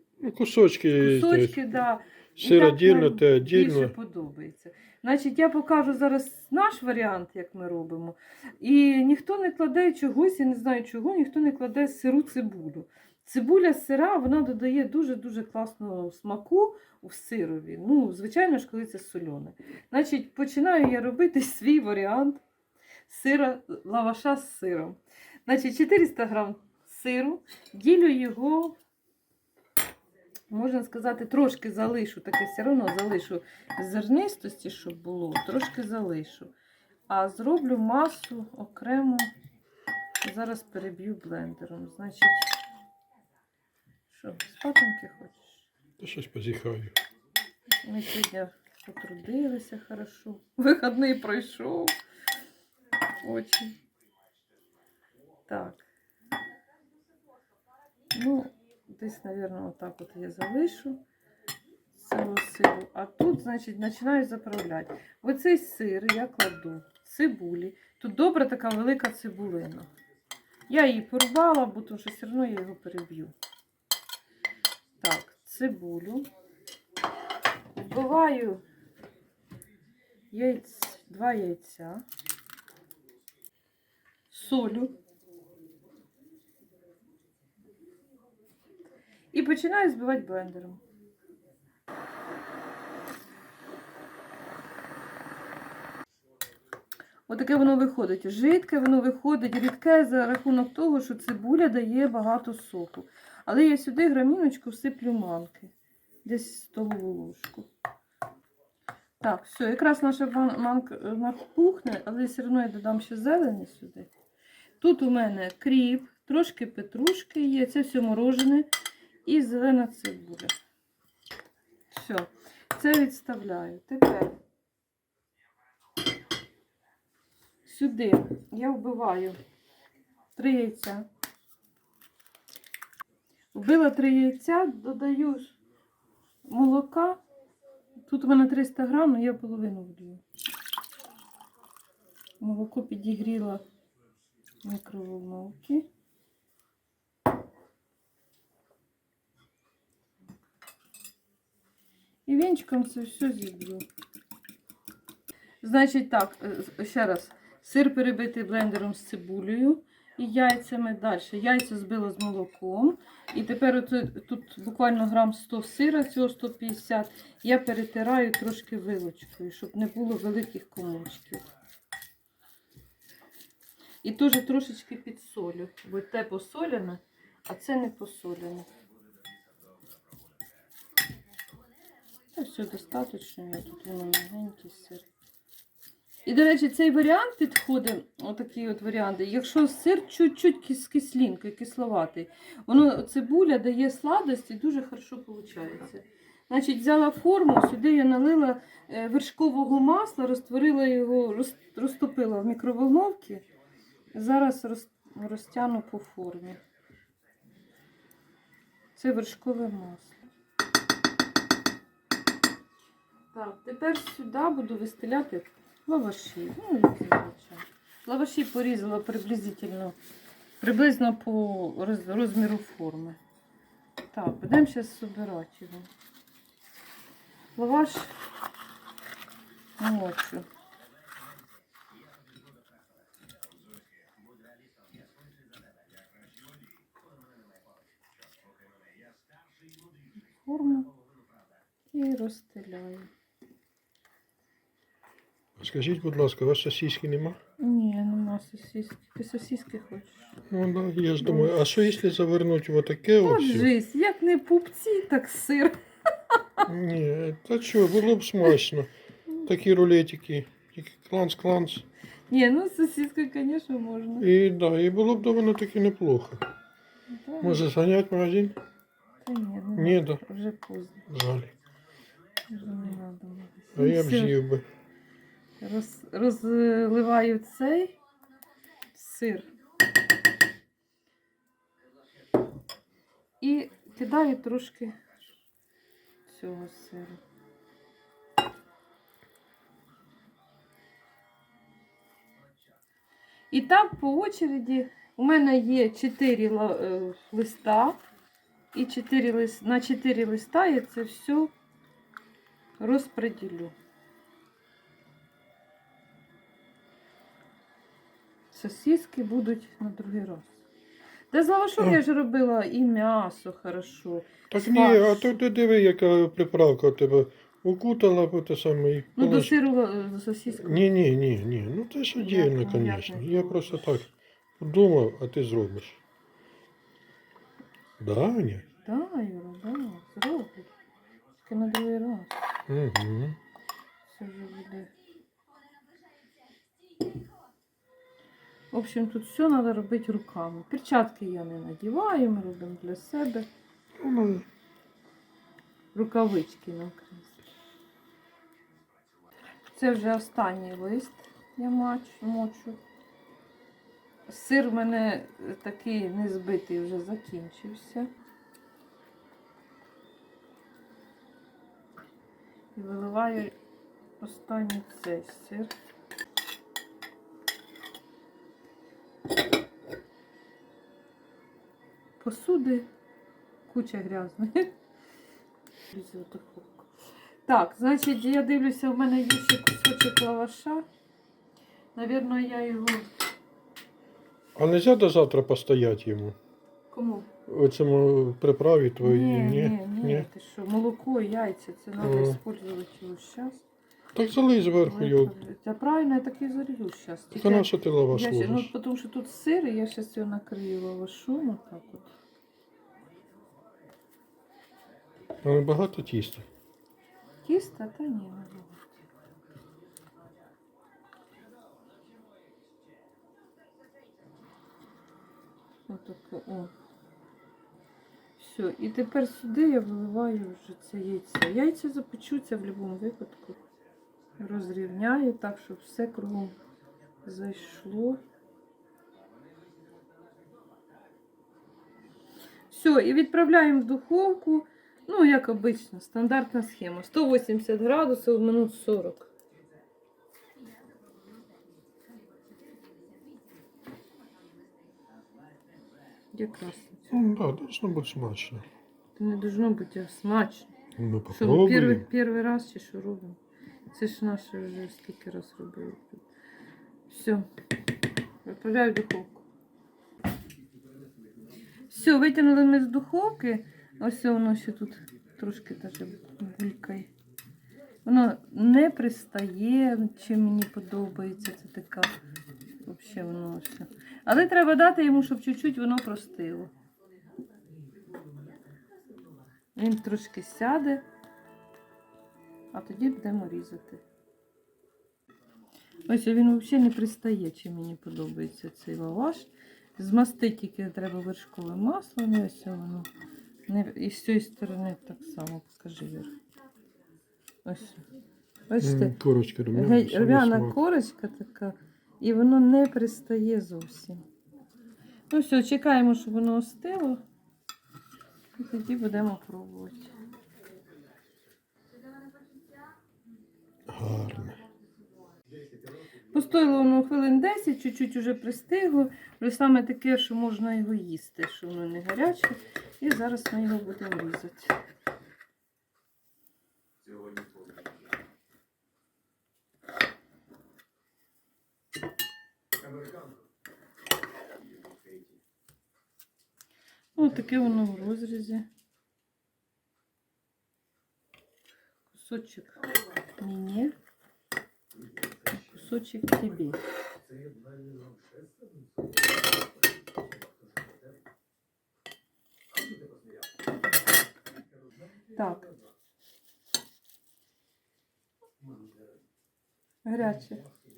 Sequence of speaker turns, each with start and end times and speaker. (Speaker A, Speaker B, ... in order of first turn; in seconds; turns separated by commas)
Speaker A: 0.2-1.6, Speaker B: 1.0-22.4, Speaker A: 2.4-3.9, Speaker B: 23.1-28.8, Speaker B: 30.5-36.5, Speaker B: 37.1-39.3, Speaker B: 40.2-42.6, Speaker B: 44.1-45.7, Speaker A: 46.0-47.0, Speaker B: 47.8-52.0, Speaker B: 53.2-53.7, Speaker B: 55.5-55.8, Speaker B: 58.1-61.0, Speaker B: 61.9-69.9, Speaker B: 70.7-73.3, Speaker B: 75.0-76.3, Speaker B: 77.8-78.6, Speaker B: 80.3-82.0, Speaker B: 84.3-84.9, Speaker B: 89.3-90.8, Speaker B: 97.3-105.7, Speaker B: 106.2-107.7, Speaker B: 109.2-114.1, Speaker B: 114.8-118.7, Speaker B: 119.2-120.5, Speaker B: 121.9-124.4, Speaker B: 127.7-129.4, Speaker B: 130.4-131.1, Speaker B: 133.5-135.6, Speaker B: 136.5-137.2, Speaker B: 138.0-140.2, Speaker B: 142.4-143.6, Speaker B: 144.6-145.9, Speaker B: 152.3-153.8, Speaker B: 155.6-171.5, Speaker B: 174.0-178.7, Speaker B: 182.3-185.1, Speaker B: 186.3-203.4, Speaker B: 204.1-206.6, Speaker B: 208.9-210.2, Speaker B: 213.3-220.0, Speaker B: 220.6-223.2, Speaker B: 224.1-225.9, Speaker B: 227.6-228.2, Speaker B: 229.8-230.5, Speaker B: 240.4-240.9, Speaker B: 241.9-243.1, Speaker A: 245.6-247.4, Speaker B: 247.6-250.3, Speaker A: 250.5-253.7, Speaker B: 251.2-251.6, Speaker B: 253.2-255.8, Speaker A: 256.7-258.9, Speaker A: 259.4-261.9, Speaker B: 262.3-264.3, Speaker A: 264.2-266.4, Speaker B: 267.1-267.6, Speaker A: 267.4-268.6, Speaker B: 269.2-271.0, Speaker A: 269.8-270.2, Speaker A: 271.1-271.5, Speaker B: 272.5-274.4, Speaker A: 273.8-274.6, Speaker B: 275.6-277.9, Speaker B: 278.9-279.5, Speaker B: 283.4-285.0, Speaker B: 286.3-287.2, Speaker B: 293.5-298.0, Speaker B: 298.7-301.5, Speaker B: 302.8-303.7, Speaker B: 308.5-310.5, Speaker B: 311.3-315.4, Speaker A: 314.5-319.5, Speaker B: 319.2-320.8, Speaker A: 320.6-326.0, Speaker B: 322.2-323.8, Speaker A: 328.0-328.7, Speaker B: 328.9-330.7, Speaker B: 331.4-332.5, Speaker A: 332.7-333.4, Speaker B: 334.1-334.9, Speaker B: 338.7-343.5, Speaker A: 344.0-344.5, Speaker B: 345.9-347.4, Speaker B: 349.7-352.8, Speaker B: 354.3-358.1, Speaker B: 362.8-363.6, Speaker B: 364.2-365.7, Speaker B: 372.2-372.9, Speaker B: 373.7-374.7, Speaker B: 375.9-376.9, Speaker B: 377.5-380.9, Speaker B: 381.9-383.1, Speaker A: 384.6-386.4, Speaker B: 386.9-387.3, Speaker A: 387.5-390.3, Speaker B: 389.0-393.6, Speaker A: 392.0-392.4, Speaker A: 394.1-395.4, Speaker B: 394.8-402.1, Speaker A: 397.4-398.7, Speaker A: 405.4-406.5, Speaker B: 407.4-408.9, Speaker B: 415.9-416.7, Speaker B: 418.4-423.6, Speaker B: 424.4-426.6, Speaker B: 427.2-428.2, Speaker B: 432.7-439.3, Speaker B: 446.3-447.2, Speaker A: 447.1-448.6, Speaker B: 449.2-450.7, Speaker A: 451.0-452.1, Speaker B: 451.3-453.4, Speaker B: 453.9-456.3, Speaker B: 457.1-457.5, Speaker B: 458.4-459.5, Speaker B: 461.9-467.1, Speaker B: 468.1-472.2, Speaker B: 472.8-476.7, Speaker B: 479.8-481.0, Speaker B: 482.7-484.0, Speaker B: 486.1-493.1, Speaker B: 493.7-496.3, Speaker B: 497.6-498.0, Speaker B: 498.7-499.1, Speaker A: 498.8-500.8, Speaker B: 499.7-504.2, Speaker B: 505.3-507.2, Speaker B: 508.6-510.1, Speaker A: 513.9-514.6, Speaker B: 516.3-524.7, Speaker B: 537.2-538.7, Speaker B: 542.1-542.8, Speaker B: 543.4-543.9, Speaker B: 545.5-546.8, Speaker B: 555.3-555.7, Speaker B: 560.0-560.6